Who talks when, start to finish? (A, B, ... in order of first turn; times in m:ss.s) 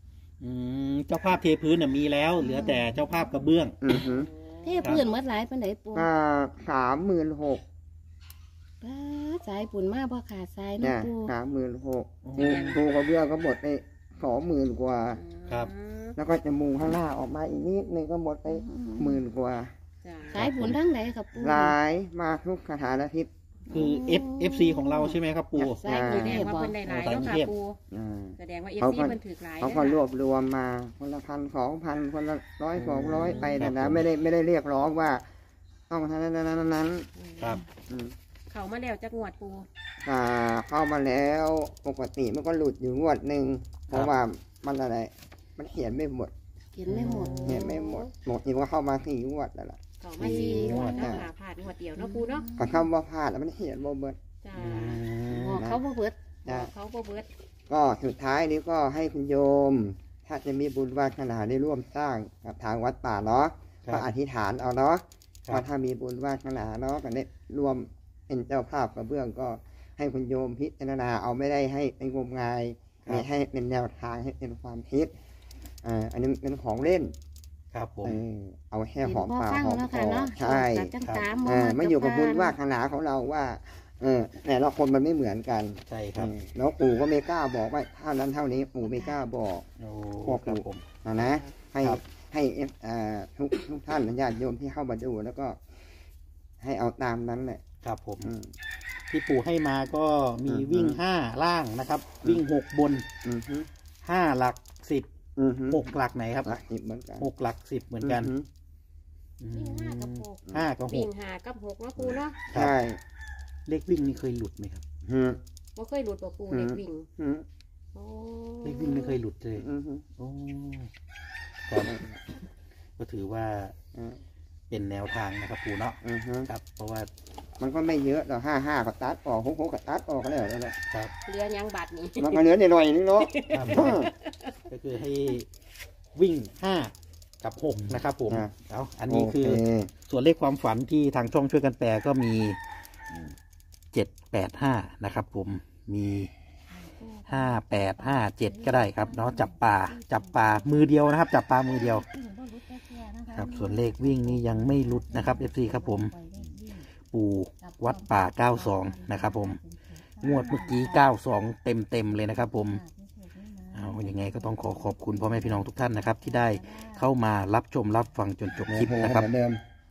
0:00.4-0:03.8 A
0:02.4-0:02.9 B
0:03.8-0:04.3 C
0:04.6-0:06.1 B
0:06.0-0:07.6 C
0:08.8-0:11.3 B
0:10.8-0:15.2 C
0:12.2-0:12.8 A
0:12.4-0:12.8 D
0:15.1-0:16.2 D
0:16.2-0:19.7 C
0:18.5-0:19.2 B
0:20.0-0:20.4 D
0:20.3-0:21.8 B
0:20.3-0:20.8 A
0:21.4-0:23.3 C
0:23.7-0:25.9 A
0:23.7-0:26.8 B
0:25.8-0:26.4 C
0:26.0-0:27.8 D
0:26.9-0:27.5 A
0:27.9-0:35.2 C
0:28.4-0:30.1 D
0:32.8-0:34.0 A
0:35.9-0:37.1 C
0:37.2-0:37.6 D
0:37.9-0:38.1 C
0:38.5-0:39.7 D
0:40.0-0:46.3 C
0:46.8-0:47.7 B
0:46.9-0:47.7 A
0:47.2-0:48.1 D
0:47.4-0:51.3 C
0:50.0-0:52.5 D
0:50.2-0:51.1 A
0:50.4-0:51.1 B
0:52.0-0:52.8 B
0:52.6-0:54.2 C
0:54.4-0:55.1 D
0:54.6-0:55.6 A
0:55.3-0:56.2 B
0:56.5-0:56.7 C
0:56.5-0:57.3 D
0:57.7-1:15.1 C
1:15.8-1:17.1 C
1:17.7-1:18.2 A
1:18.0-1:20.9 C
1:19.0-1:22.6 B
1:21.4-1:29.7 C
1:25.9-1:26.3 A
1:28.9-1:29.2 B
1:29.8-1:30.8 A
1:30.2-1:35.6 C
1:36.6-1:37.6 C
1:37.8-1:38.3 A
1:38.2-1:38.5 C
1:39.1-1:43.1 A
1:40.5-1:41.0 C
1:43.2-1:43.7 C
1:44.0-1:45.1 A
1:45.4-1:45.9 C
1:45.7-1:46.5 A
1:46.4-1:47.3 C
1:47.2-1:48.3 A
1:48.0-1:48.5 C
1:49.4-1:51.1 A
1:49.5-1:52.4 D
1:52.5-1:52.7 A
1:52.5-1:53.0 C
1:53.7-1:54.8 A
1:55.1-1:55.4 C
1:55.8-1:57.1 D
1:56.5-1:57.4 C
1:57.9-1:59.2 D
1:58.6-1:59.7 A
1:59.6-2:00.0 C
2:00.2-2:00.9 A
2:01.7-2:02.0 A
2:03.0-2:03.8 A
2:04.0-2:04.2 C
2:04.7-2:07.1 A
2:06.0-2:06.5 C
2:07.6-2:10.8 C
2:11.2-2:12.5 D
2:12.2-2:14.1 C
2:13.2-2:14.5 D
2:13.5-2:14.1 A
2:14.7-2:15.5 A
2:16.2-2:22.6 A
2:19.1-2:19.9 C
2:23.9-2:26.3 A
2:26.7-2:31.0 B
2:27.3-2:32.0 A
2:31.6-2:36.9 B
2:33.3-2:36.1 A
2:37.1-2:39.6 A
2:37.6-2:41.1 B
2:40.2-2:42.8 A
2:42.1-2:47.1 B
2:43.7-2:49.3 A
2:48.7-2:49.6 C